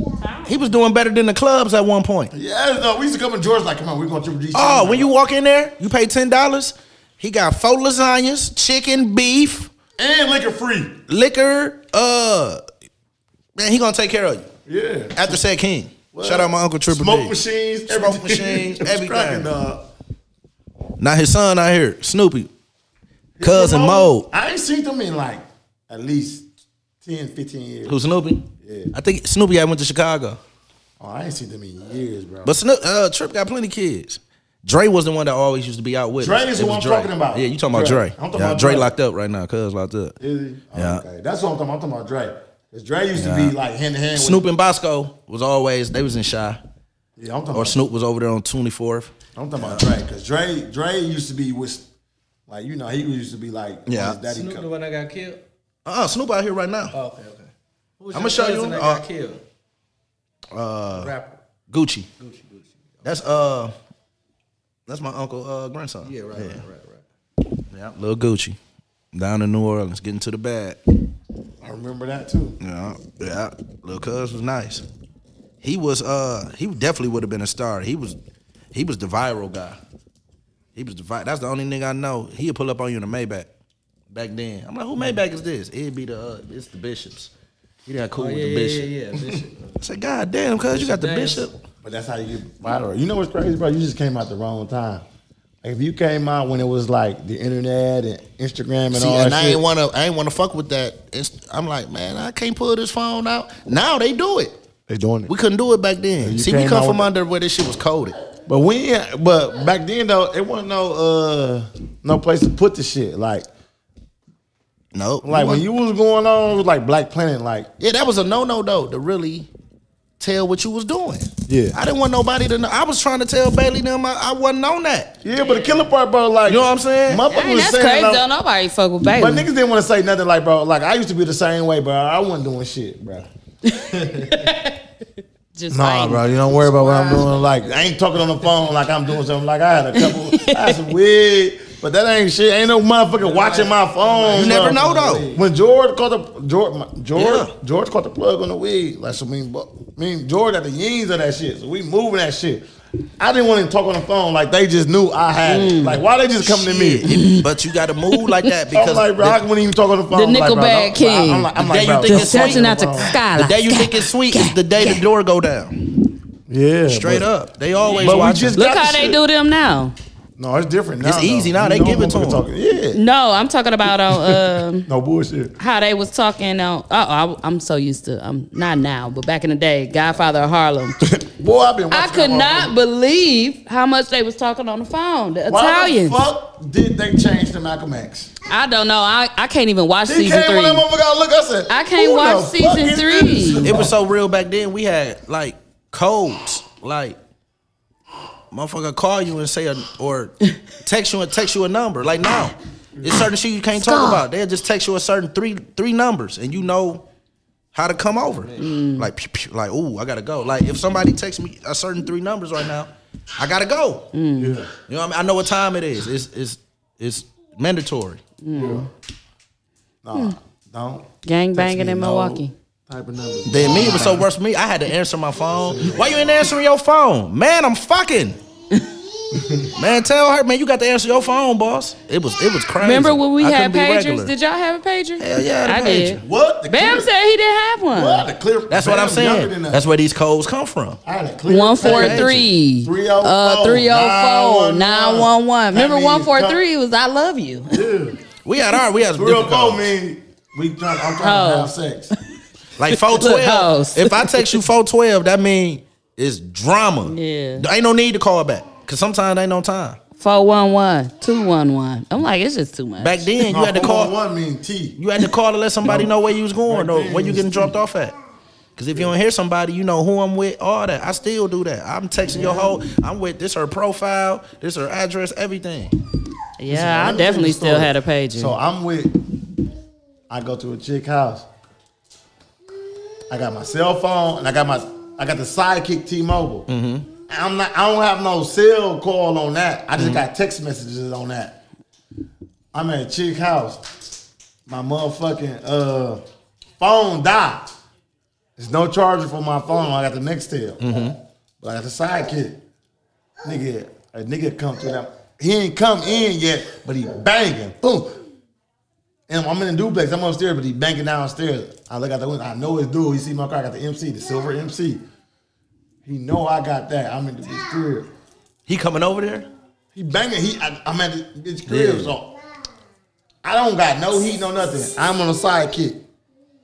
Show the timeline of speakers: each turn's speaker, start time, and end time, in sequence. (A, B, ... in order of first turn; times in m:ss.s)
0:00.2-0:00.5 A
0:00.5-0:02.3 B
0:02.3-0:05.1 C
0:04.5-0:09.7 B
0:10.0-0:11.0 C
0:11.1-0:12.6 B
0:13.6-0:14.5 B
0:14.7-0:15.4 C
0:15.1-0:17.3 B
0:16.1-0:19.9 C
0:17.9-0:19.5 B
0:21.0-0:22.5 B
0:23.4-0:26.5 C
0:23.4-0:24.3 B
0:27.0-0:28.0 C
0:27.9-0:30.4 B
0:28.6-0:28.9 C
0:31.0-0:32.6 C
0:32.4-0:40.2 B
0:36.2-0:38.9 C
0:40.2-0:44.5 C
0:40.7-0:41.0 B
0:43.2-0:43.5 B
0:44.2-0:46.6 B
0:47.2-0:47.8 C
0:47.5-0:49.8 B
0:49.4-0:51.8 C
0:52.5-0:54.7 C
0:53.9-0:54.2 B
0:54.3-0:55.4 D
0:55.8-0:57.0 B
0:56.9-0:59.4 D
0:58.1-0:59.0 B
1:00.5-1:01.1 B
1:00.9-1:01.4 D
1:01.7-1:02.1 B
1:02.2-1:02.7 D
1:03.0-1:03.7 B
1:04.9-1:06.6 B
1:06.0-1:07.0 D
1:07.7-1:08.6 B
1:09.1-1:10.8 B
1:11.6-1:12.6 C
1:12.6-1:14.8 B
1:15.6-1:18.2 B
1:18.7-1:19.8 B
1:20.8-1:23.5 B
1:24.1-1:27.3 B
1:27.9-1:28.9 B
1:28.2-1:29.8 D
1:29.8-1:31.6 B
1:30.7-1:31.5 D
1:31.8-1:35.0 C
1:35.6-1:39.6 C
1:38.9-1:44.6 B
1:44.9-1:45.3 C
1:45.3-1:48.2 B
1:46.2-1:47.1 C
1:48.5-1:53.5 C
1:54.9-1:55.6 B
1:55.2-1:57.7 C
1:57.8-1:59.5 B
2:00.2-2:05.2 B
2:01.5-2:01.8 C
2:05.2-2:08.2 C
2:05.3-2:05.9 D
2:06.5-2:07.2 B
2:07.3-2:09.5 A
2:09.2-2:13.3 C
2:13.7-2:14.8 A
2:15.6-2:17.2 A
2:15.7-2:32.6 C
2:20.0-2:20.8 A
2:23.2-2:24.8 D
2:24.3-2:25.4 B
2:27.2-2:27.5 B
2:33.2-2:37.1 C
2:35.5-2:36.0 A
2:36.4-2:39.4 B
2:37.1-2:37.4 A
2:38.1-2:38.4 A
2:38.7-2:43.2 C
2:40.1-2:45.0 A
2:41.6-2:42.7 B
2:43.3-2:45.8 B
2:46.5-2:47.3 C
2:46.9-2:48.6 B
2:47.8-2:48.2 D
2:48.0-2:49.2 C
2:48.5-2:50.0 A
2:50.4-2:53.0 C
2:51.0-2:52.4 B
2:52.9-2:54.9 A
2:54.1-2:55.6 C
2:55.6-3:01.0 A
3:01.0-3:02.8 C
3:01.9-3:06.2 A
3:05.5-3:08.3 C
3:08.5-3:10.8 A
3:10.0-3:14.0 C
3:11.7-3:13.8 A
3:13.6-3:17.2 B
3:18.5-3:27.0 B
3:23.8-3:24.2 A
3:27.7-3:34.1 B
3:28.6-3:29.1 A
3:34.1-3:34.6 A
3:34.4-3:34.7 C
3:34.9-3:38.2 B
3:38.4-3:38.9 A
3:38.5-3:38.9 C
3:40.0-3:44.3 C
3:41.2-3:42.5 A
3:43.5-3:48.4 B
3:45.6-3:46.5 C
3:49.3-3:49.7 C
3:49.8-3:54.3 B
3:52.8-3:58.3 A
3:55.2-3:56.2 B
3:56.2-3:57.1 C
3:57.9-3:59.9 C
3:58.7-4:01.0 B
4:01.0-4:06.6 C
4:01.5-4:07.8 A
4:01.8-4:02.5 B
4:07.7-4:08.2 C
4:08.4-4:09.9 B
4:09.1-4:12.1 C
4:11.2-4:11.7 A
4:12.8-4:20.0 B
4:12.9-4:14.6 A
4:17.0-4:17.7 A
4:20.2-4:23.3 A
4:23.0-4:24.1 B
4:23.4-4:25.0 C
4:25.0-4:28.2 B
4:25.8-4:27.7 C
4:28.8-4:35.9 B
4:32.4-4:32.7 C
4:36.6-4:38.6 A
4:36.7-4:39.2 C
4:40.3-4:41.5 C
4:43.3-4:46.7 C
4:46.7-4:47.1 B
4:47.2-4:51.6 C
4:50.0-4:50.2 B
4:52.7-4:53.8 C
4:54.7-4:56.2 C
4:56.8-4:57.7 C
4:58.6-5:01.0 C
5:00.8-5:01.2 B
5:01.6-5:02.6 C
5:03.4-5:08.2 C
5:09.3-5:15.0 C
5:16.0-5:18.1 C
5:18.7-5:19.5 B
5:19.9-5:22.4 C
5:21.7-5:22.1 B
5:23.4-5:26.0 C